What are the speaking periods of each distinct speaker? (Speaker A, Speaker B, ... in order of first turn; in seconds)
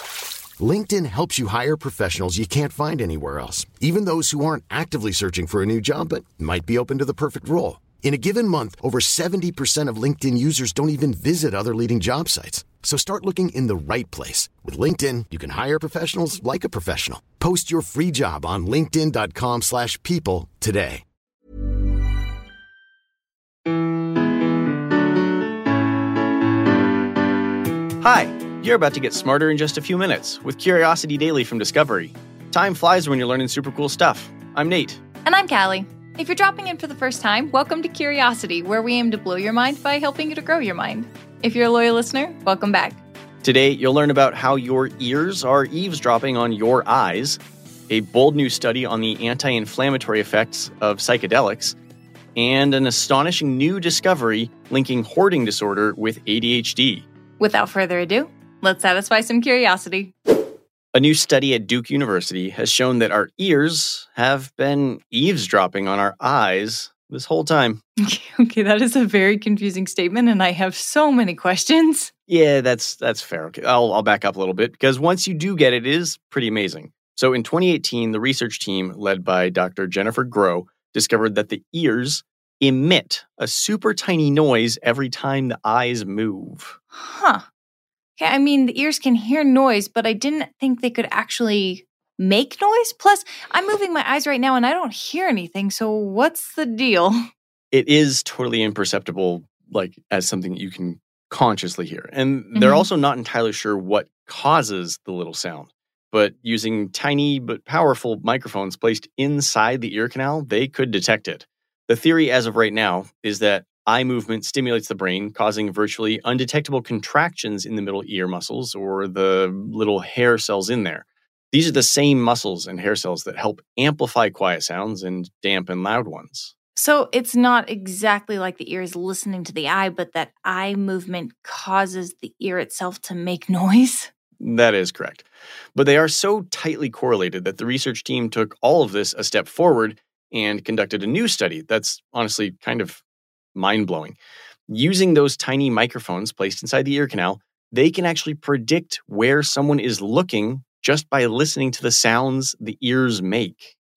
Speaker A: 0.6-21.0
Speaker B: 28.0-35.0, 43.4-51.8, 52.4-57.0, 60.9-67.8, 72.3-86.8, 97.7-126.5, 134.4-143.0, 143.5-144.2, 144.7-153.7
Speaker C: 35.2-43.0, 57.4-60.1, 68.0-72.1, 86.9-87.4, 88.2-97.2, 102.5-102.9, 126.8-134.1